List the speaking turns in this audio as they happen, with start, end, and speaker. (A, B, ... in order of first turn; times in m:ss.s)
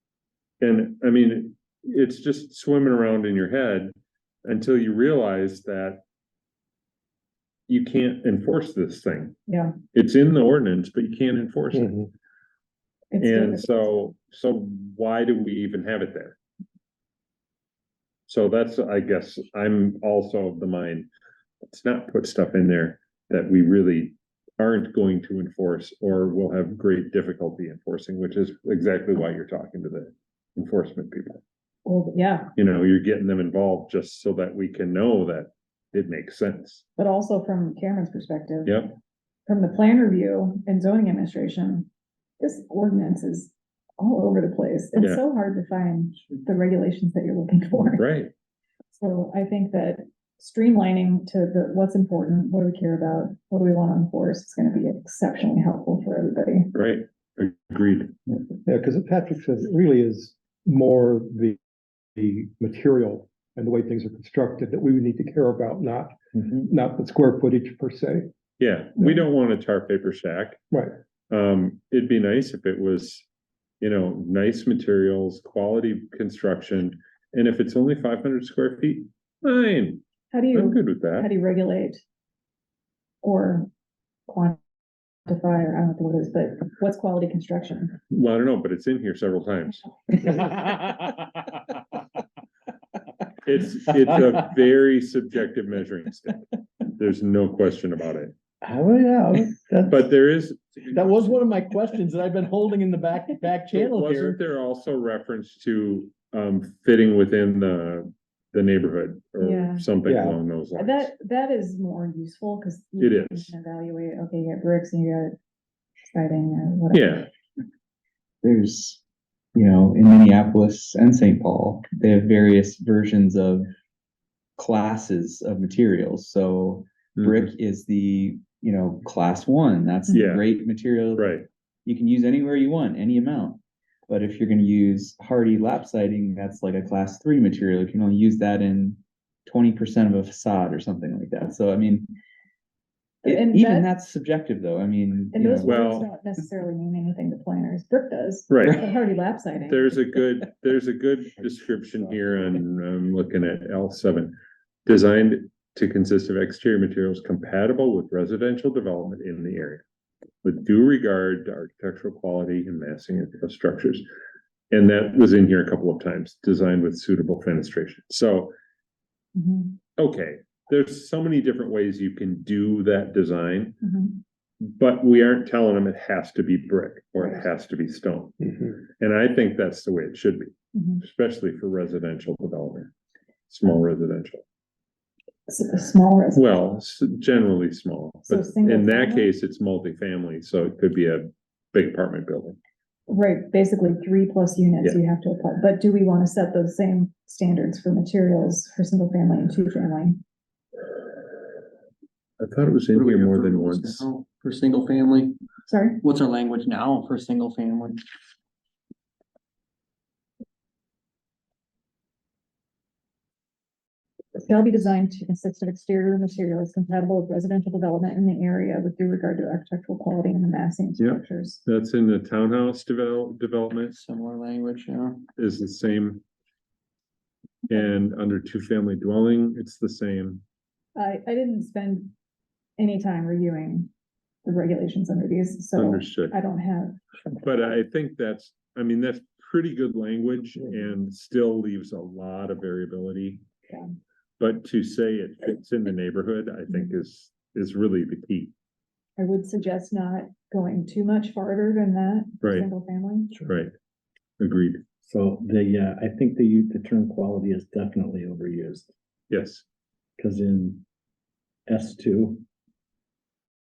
0:00.6-0:03.9 A
0:04.4-0:06.0 A
0:07.7-0:09.4 A
0:09.5-0:09.8 B
0:09.9-0:11.9 A
0:11.7-0:12.1 C
0:13.1-0:14.0 B
0:13.2-0:16.4 A
0:18.3-0:21.1 A
0:21.7-0:31.4 A
0:31.8-0:32.5 B
0:32.6-0:36.8 A
0:37.0-0:38.8 B
0:38.7-0:39.0 A
0:39.5-0:41.9 B
0:42.4-0:48.1 B
0:45.0-0:45.2 A
0:48.0-0:48.3 A
0:48.9-0:56.7 B
0:56.7-0:58.2 A
0:58.7-1:01.6 C
1:02.2-1:08.3 C
1:08.6-1:10.7 A
1:09.0-1:09.2 C
1:11.3-1:13.2 A
1:13.8-1:21.3 A
1:20.3-1:22.0 B
1:23.2-1:23.7 B
1:24.3-1:24.6 B
1:25.3-1:28.0 B
1:28.1-1:29.8 A
1:30.2-1:31.3 D
1:33.4-1:38.3 A
1:38.6-1:40.1 D
1:39.9-1:40.9 A
1:40.9-1:44.4 D
1:43.7-1:51.1 A
1:49.4-1:49.9 B
1:50.8-1:55.4 B
1:53.0-1:53.5 A
1:56.0-1:57.2 B
1:56.9-1:57.3 A
1:58.4-1:59.0 E
1:59.6-2:03.7 E
2:04.6-2:11.3 E
2:07.2-2:07.5 A
2:10.1-2:10.4 A
2:11.2-2:11.5 A
2:11.9-2:22.1 E
2:23.2-2:23.9 B
2:23.2-2:25.8 E
2:25.3-2:30.0 B
2:25.6-2:26.1 A
2:28.5-2:28.8 A
2:29.7-2:34.4 A
2:34.9-2:39.8 A
2:40.4-2:44.1 A
2:44.7-2:48.5 A
2:49.4-2:49.8 B
2:50.0-2:53.8 A
2:53.8-2:54.2 B
2:54.6-2:58.4 A
2:59.0-3:02.9 A
3:00.7-3:01.0 B
3:03.5-3:04.4 A
3:05.5-3:06.5 B
3:06.3-3:12.6 A
3:08.3-3:09.3 B
3:13.1-3:20.2 B
3:22.4-3:24.1 A
3:22.9-3:25.4 F
3:25.7-3:26.0 B
3:26.0-3:28.0 F
3:34.4-3:41.6 B
3:41.0-3:44.0 A
3:43.9-3:45.3 F
3:45.4-3:46.2 A
3:47.7-3:50.4 A
3:51.0-3:52.1 B
3:52.8-3:53.9 B
3:54.4-3:57.0 B
3:55.8-3:56.4 A
3:57.4-4:03.4 A
4:04.4-4:08.5 A
4:09.2-4:13.3 B
4:12.4-4:12.7 A
4:13.4-4:13.7 A
4:14.4-4:14.8 A
4:15.0-4:18.9 D
4:19.3-4:19.6 A
4:20.2-4:20.8 D
4:21.7-4:22.4 D